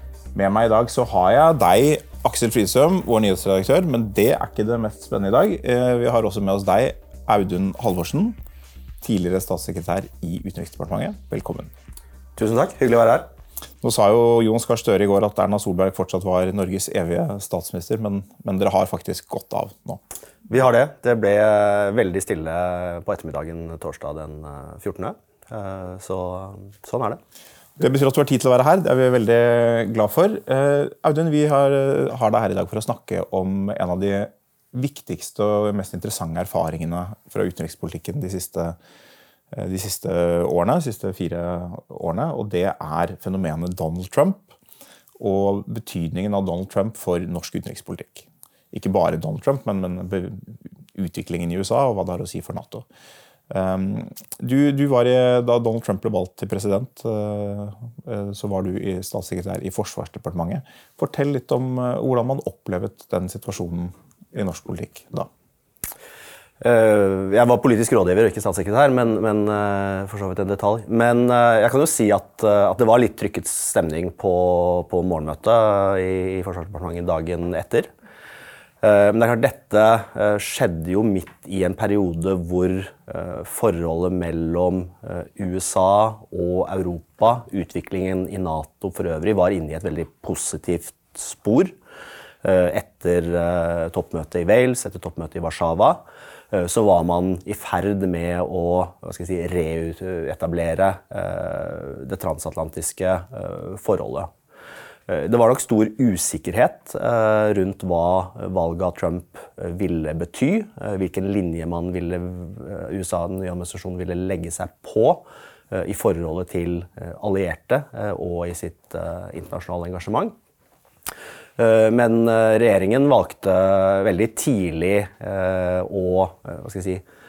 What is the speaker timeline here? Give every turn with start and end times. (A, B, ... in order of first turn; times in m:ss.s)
0:00.3-0:08.4 A
0:09.0-0:11.7 A
0:12.4-0:13.3 B
0:13.8-0:20.0 A
0:20.5-0:27.2 B
0:27.8-0:38.8 A
0:39.5-0:44.5 A
0:45.2-0:52.8 A
0:53.5-1:05.3 A
1:06.6-1:17.9 B
1:18.8-1:31.8 B
1:32.4-1:44.3 B
1:45.1-2:00.3 B
2:01.6-2:07.0 B